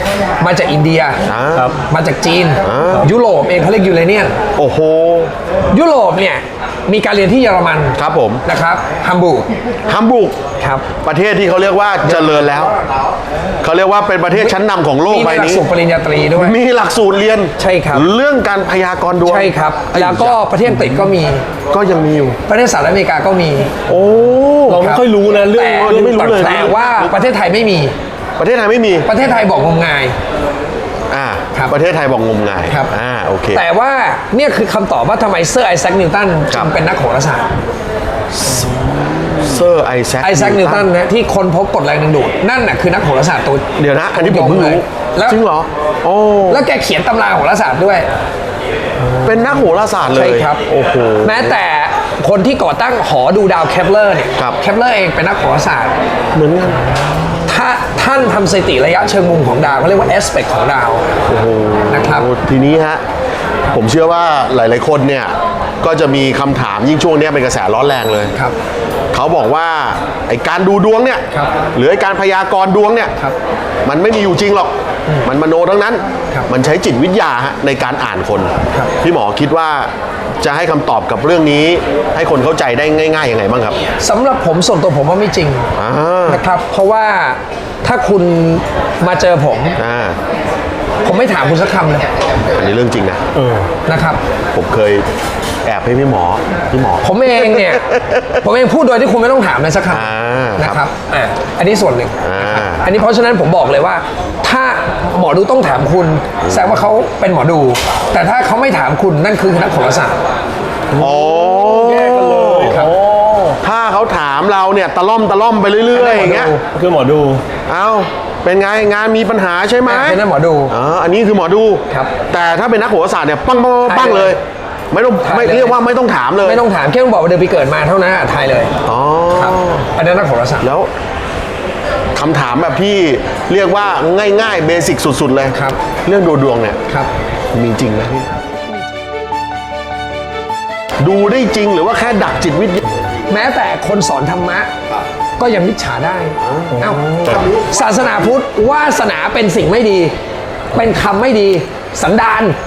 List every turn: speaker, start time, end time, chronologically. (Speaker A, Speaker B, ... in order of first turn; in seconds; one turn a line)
Speaker A: 0.4-1.2
Speaker B: 1.3-1.8
Speaker A: 1.8-4.4
Speaker B: 2.6-3.1
Speaker B: 4.6-5.3
Speaker A: 5.7-9.5
Speaker B: 8.0-8.4
Speaker B: 9.9-10.4
Speaker A: 10.6-10.9
Speaker B: 11.0-12.8
Speaker A: 12.0-12.5
Speaker B: 13.6-15.6
Speaker A: 14.3-16.6
Speaker B: 16.3-21.0
Speaker A: 17.6-18.1
Speaker A: 19.2-21.4
Speaker B: 21.7-22.4
Speaker A: 22.5-23.8
Speaker B: 23.9-24.9
Speaker C: 24.7-26.7
Speaker A: 24.7-27.9
Speaker B: 25.7-27.1
Speaker B: 28.4-29.1
Speaker A: 29.1-30.2
Speaker B: 31.1-33.6
Speaker A: 33.5-37.5
Speaker B: 38.4-40.9
Speaker A: 40.2-45.4
Speaker B: 43.8-46.6
Speaker A: 46.5-48.1
Speaker B: 49.2-51.6
Speaker A: 50.0-50.6
Speaker A: 51.2-56.0
Speaker B: 56.3-57.3
Speaker A: 57.5-61.2
Speaker B: 61.3-63.0
Speaker A: 61.9-62.3
Speaker B: 63.7-68.3
Speaker B: 69.1-73.1
Speaker B: 73.9-74.7
Speaker B: 75.2-79.9
Speaker B: 80.4-83.8
Speaker A: 84.0-85.7
Speaker B: 85.8-86.4
Speaker A: 86.3-89.8
Speaker B: 89.8-90.2
Speaker A: 91.0-92.1
Speaker B: 92.5-93.2
Speaker C: 93.3-93.7
Speaker A: 93.9-94.2
Speaker B: 94.5-95.1
Speaker B: 95.7-98.3
Speaker A: 97.0-110.2
Speaker B: 99.9-100.8
Speaker B: 102.2-102.8
Speaker B: 106.4-106.8
Speaker C: 110.9-113.6
Speaker B: 111.0-112.8
Speaker A: 112.5-112.9
Speaker B: 113.6-116.5
Speaker A: 115.9-116.7
Speaker C: 116.7-117.4
Speaker B: 117.7-124.4
Speaker A: 119.9-120.7
Speaker A: 123.8-124.4
Speaker B: 124.9-126.6
Speaker A: 125.2-125.8
Speaker A: 126.4-128.8
Speaker B: 128.8-129.9
Speaker A: 129.3-130.7
Speaker B: 130.6-130.9
Speaker B: 132.2-136.8
Speaker B: 137.5-138.3
Speaker B: 141.0-143.1
Speaker A: 143.3-144.7
Speaker A: 145.4-150.2
Speaker B: 146.4-148.3
Speaker A: 150.7-152.6